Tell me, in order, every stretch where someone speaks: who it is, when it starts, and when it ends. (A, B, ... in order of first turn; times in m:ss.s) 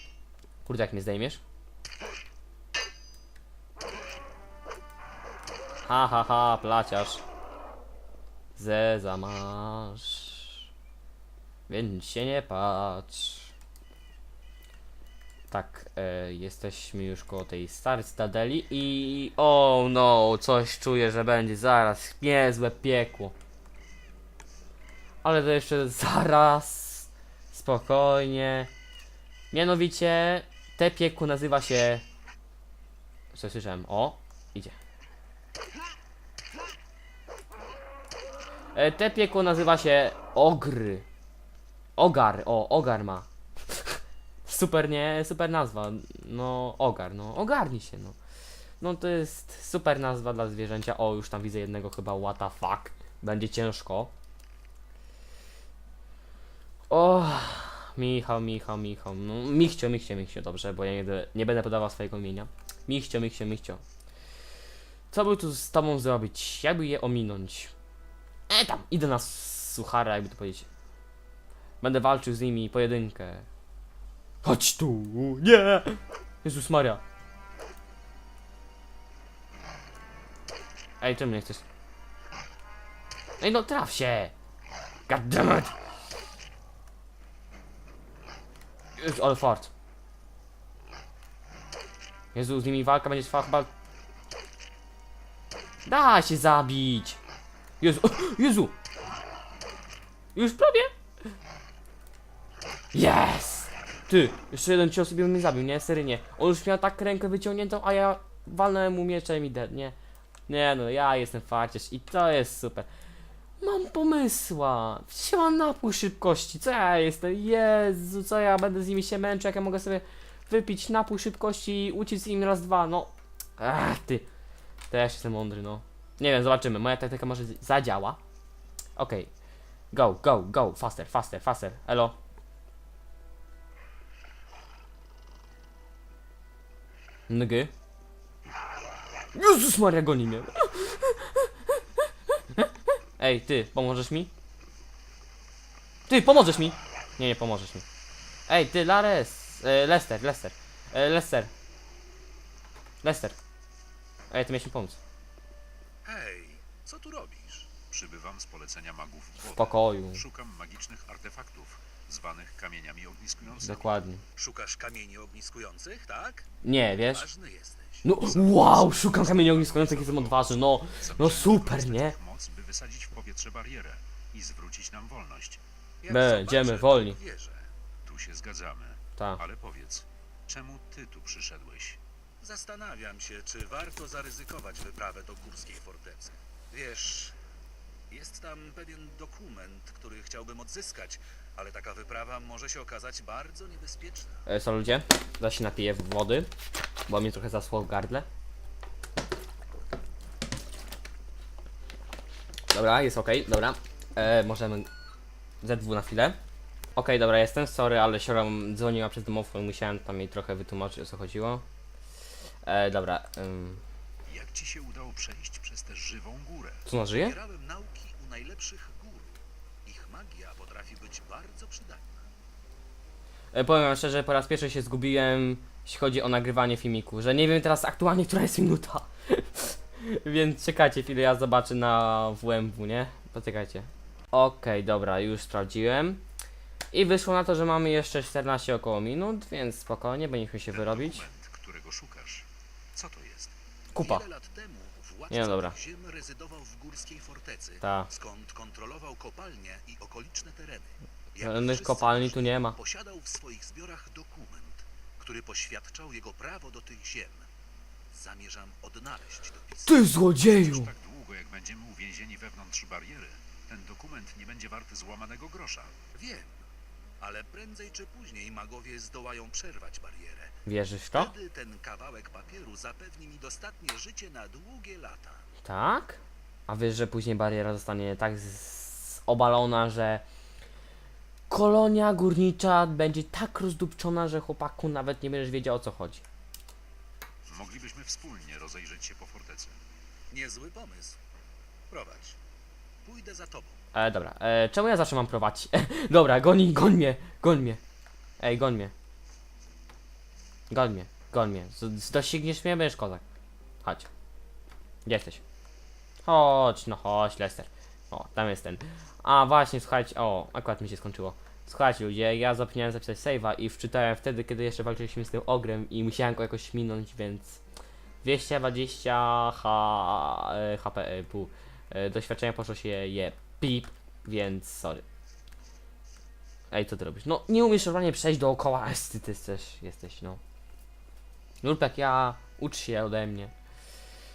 0:00.6-0:01.4 A
0:05.8-0:07.2 A
0:08.6-0:10.5 A
0:11.7-0:13.5 A
0:15.5-0:23.3 A
0:25.2-0:28.7 A
0:29.5-0:32.0 A
0:33.3-0:34.7 A
0:38.7-0:41.0 A
0:42.0-0:48.2 A
0:48.8-0:54.1 A
0:56.9-1:03.8 A
1:05.1-1:07.7 A
1:08.5-1:10.7 A
1:11.8-1:13.5 A
1:14.4-1:17.0 A
1:21.0-1:21.6 A
1:23.4-1:24.3 A
1:25.1-1:25.7 A
1:29.0-1:29.7 A
1:32.3-1:33.7 A
1:35.8-1:37.2 A
1:37.8-1:38.7 A
1:40.3-1:40.9 A
1:42.9-1:49.9 A
1:50.5-1:52.9 A
1:53.6-2:04.3 A
2:04.9-2:08.2 A
2:09.0-2:09.3 A
2:09.9-2:12.2 A
2:17.3-2:17.7 A
2:19.3-2:24.3 A
2:26.1-2:27.8 A
2:28.5-2:31.5 A
2:33.0-2:33.4 A
2:34.3-2:35.0 A
2:36.0-2:37.7 B
2:37.9-2:43.9 C
2:39.4-2:40.2 A
2:43.6-2:44.2 A
2:44.4-2:46.5 B
2:46.6-2:47.3 A
2:47.0-2:48.3 B
2:48.0-2:52.2 A
2:48.3-2:55.6 C
2:56.0-2:57.7 B
2:56.1-2:57.2 A
2:58.0-3:02.0 C
3:02.4-3:07.4 B
3:08.1-3:14.4 B
3:14.4-3:16.5 A
3:17.1-3:18.2 A
3:22.7-3:24.9 A
3:25.6-3:26.4 A
3:27.0-3:31.6 A
3:32.6-3:33.8 A
3:34.2-3:36.8 C
3:36.8-3:37.4 A
3:37.1-3:42.3 B
3:43.5-3:56.2 A
3:56.9-4:01.3 A
4:00.7-4:03.5 C
4:03.9-4:04.2 A
4:03.9-4:17.5 B
4:05.3-4:05.7 A
4:07.8-4:08.1 A
4:11.4-4:12.8 A
4:18.1-4:20.1 B
4:19.8-4:20.9 A
4:20.4-4:26.0 C
4:26.1-4:26.6 B
4:27.2-4:30.6 B
4:30.6-4:31.3 A
4:31.1-4:35.4 B
4:35.6-4:40.2 A
4:41.5-4:46.2 A
4:47.4-4:49.8 C
4:50.3-4:51.2 B
4:51.9-4:52.4 B
4:53.0-4:53.8 B
4:53.9-4:57.8 A
4:58.4-4:58.9 A
5:00.7-5:03.2 A
5:03.8-5:04.1 A
5:05.0-5:05.4 A
5:06.2-5:17.6 A
5:18.2-5:25.0 A
5:26.7-5:30.4 A
5:31.6-5:33.5 A